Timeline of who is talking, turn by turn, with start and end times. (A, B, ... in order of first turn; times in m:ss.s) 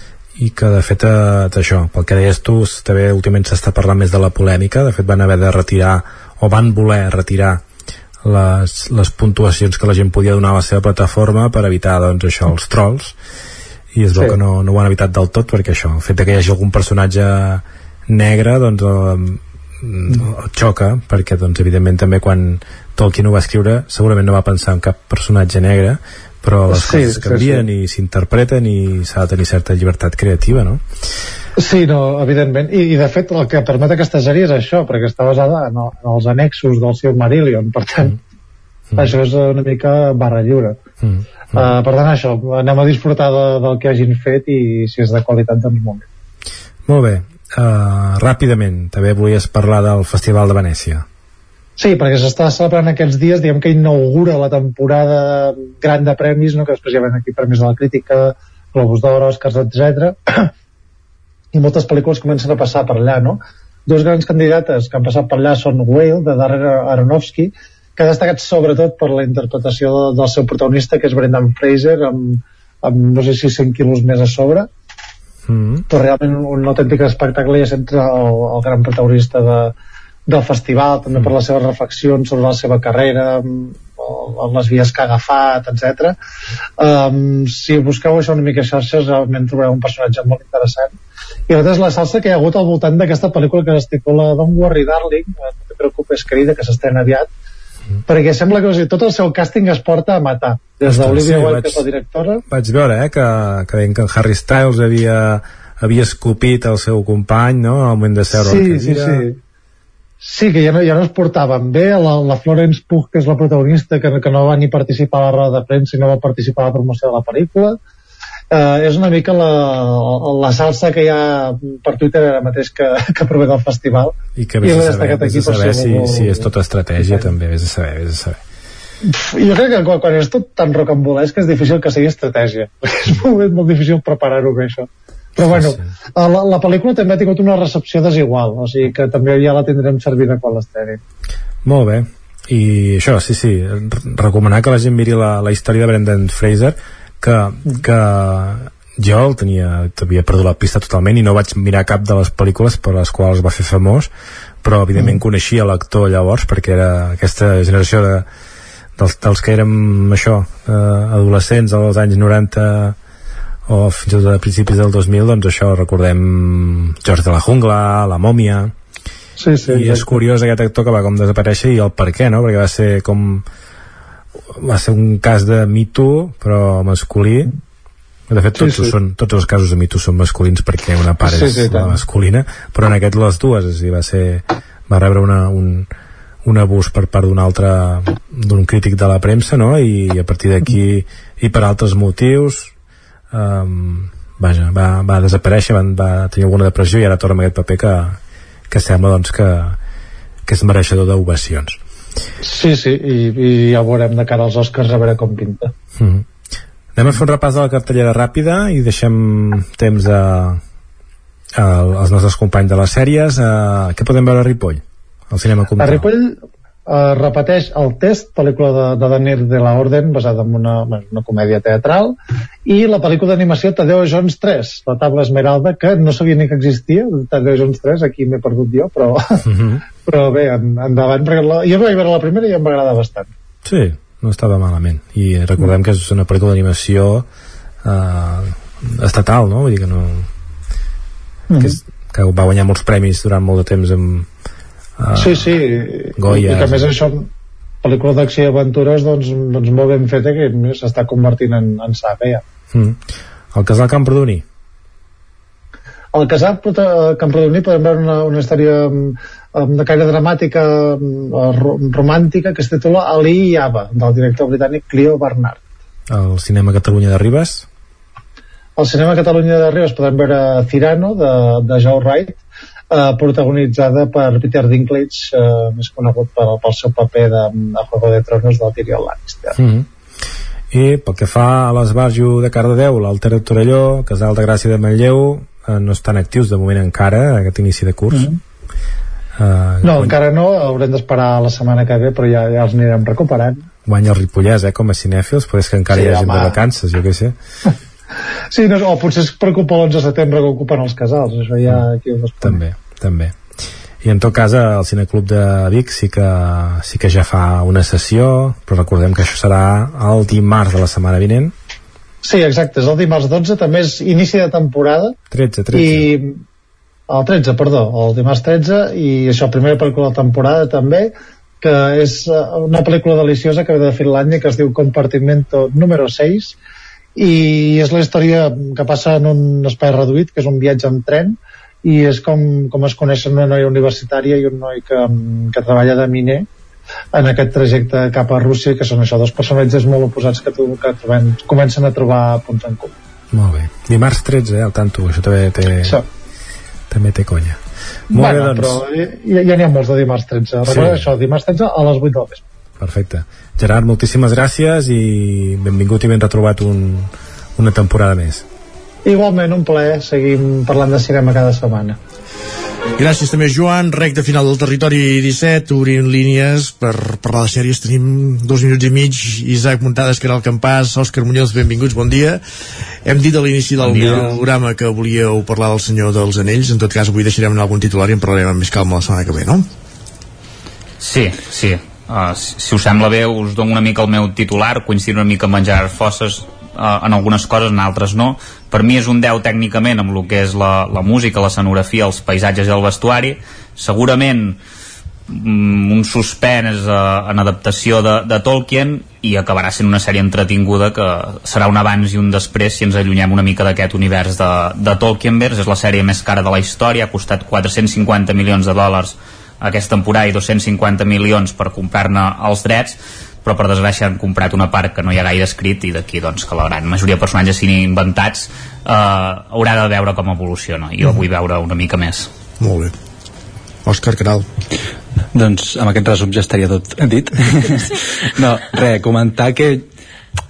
0:00.4-0:07.6 A
0:08.2-0:13.2 A
0:13.9-0:30.8 A
0:26.7-0:27.7 B
0:31.6-0:38.2 B
0:39.0-0:40.8 B
0:41.0-0:41.7 A
0:41.5-0:46.0 B
0:46.9-0:51.0 A
0:51.8-1:00.5 B
1:01.5-1:14.7 B
1:15.5-1:15.8 A
1:15.9-1:19.7 B
1:20.3-1:26.2 B
1:26.8-1:30.9 B
1:31.5-1:37.3 B
1:38.1-1:42.4 B
1:40.8-1:41.8 A
1:42.5-1:49.2 A
1:48.3-1:49.4 B
1:50.2-1:57.8 B
1:58.5-2:06.5 B
2:04.4-2:08.4 A
2:07.0-2:07.3 B
2:09.1-2:21.0 B
2:15.5-2:15.9 A
2:21.6-2:34.1 A
2:34.6-2:38.2 A
2:39.0-2:43.0 A
2:43.7-2:48.7 A
2:49.4-2:50.1 B
2:49.7-2:53.4 A
2:54.6-2:57.5 A
2:58.3-3:05.9 A
2:58.6-2:58.9 B
3:01.2-3:02.0 B
3:06.4-3:12.7 A
3:13.3-3:18.2 A
3:18.7-3:19.8 A
3:20.5-3:21.8 A
3:22.4-3:25.7 B
3:26.0-3:26.2 A
3:27.0-3:30.6 A
3:31.6-3:36.1 A
3:35.8-3:36.4 B
3:36.9-3:42.2 B
3:42.7-3:49.2 B
3:49.5-3:49.8 A
3:50.0-3:53.3 B
3:53.6-3:57.3 A
3:57.8-4:00.3 A
4:01.5-4:01.8 B
4:01.6-4:04.3 A
4:05.0-4:05.5 A
4:05.2-4:07.3 B
4:06.2-4:06.9 A
4:07.8-4:12.4 B
4:12.7-4:13.0 A
4:13.5-4:14.4 A
4:16.2-4:25.6 B
4:26.1-4:27.6 A
4:28.8-4:32.4 B
4:32.9-4:39.6 B
4:39.6-4:39.9 A
4:40.7-4:48.3 A
4:48.1-4:48.4 B
4:49.4-4:50.2 A
4:49.8-4:53.6 B
4:53.9-4:57.4 A
4:55.9-4:56.6 B
4:58.5-5:02.6 B
5:02.4-5:03.4 A
5:04.0-5:11.5 A
5:12.2-5:15.1 B
5:15.3-5:16.1 A
5:15.7-5:16.4 B
5:17.1-5:21.1 B
5:21.6-5:26.6 B
5:27.2-5:36.5 B
5:37.2-5:42.9 B
5:43.3-5:46.0 A
5:46.9-5:47.6 A
5:48.1-5:48.8 A
5:48.1-5:52.4 B
5:50.7-5:51.1 A
5:52.8-5:58.4 A
5:59.0-6:02.0 B
6:03.0-6:12.4 C
6:13.0-6:19.7 C
6:13.8-6:14.4 A
6:21.0-6:34.6 D
6:35.3-7:02.3 D
7:02.6-7:02.9 C
7:03.9-7:04.5 C
7:05.4-7:07.8 E
7:08.4-7:09.8 E